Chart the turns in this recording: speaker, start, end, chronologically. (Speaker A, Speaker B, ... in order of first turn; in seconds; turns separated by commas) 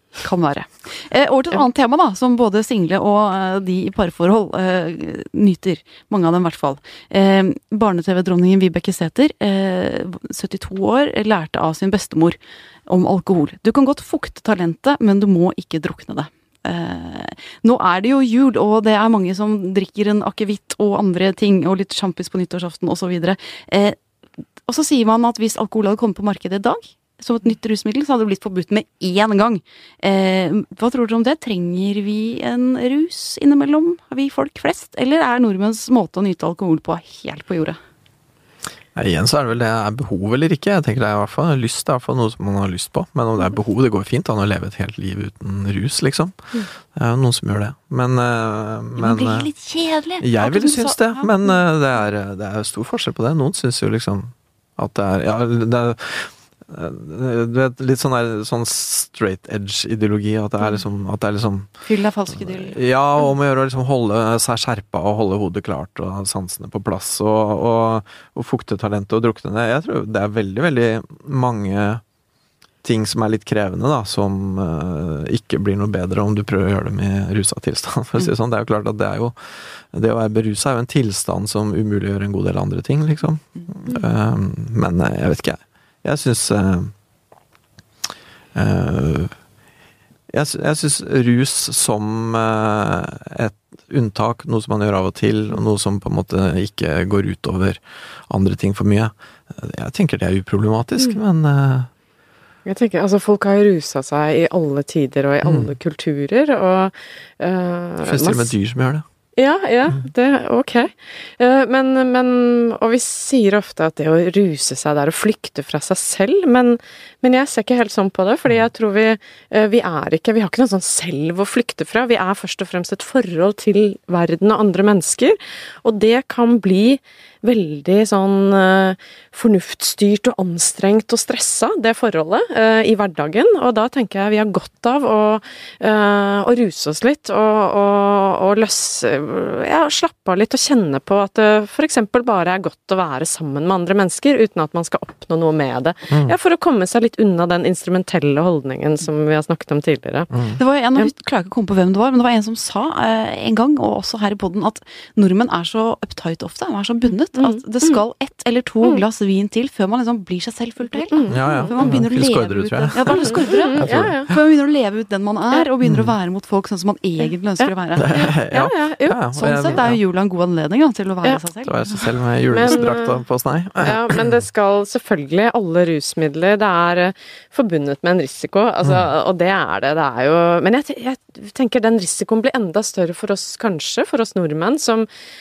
Speaker A: 0.2-24.0, Speaker A: 24.7-37.8, Speaker B: 39.0-49.5, Speaker A: 49.0-51.5, Speaker B: 50.2-61.7, Speaker A: 61.9-62.8, Speaker B: 62.3-72.0, Speaker B: 72.8-86.9, Speaker B: 88.5-89.3, Speaker B: 90.3-101.9, Speaker C: 102.7-108.5, Speaker B: 105.4-105.7, Speaker B: 108.0-109.0, Speaker C: 109.4-150.3, Speaker B: 150.3-150.6, Speaker A: 150.6-168.2, Speaker C: 157.3-158.0, Speaker C: 161.1-161.9, Speaker B: 161.3-164.3, Speaker C: 163.1-164.3, Speaker B: 165.8-166.2, Speaker C: 167.6-169.8, Speaker B: 168.0-170.0, Speaker A: 169.3-172.0, Speaker B: 171.7-174.3, Speaker C: 172.5-173.2, Speaker C: 173.8-185.1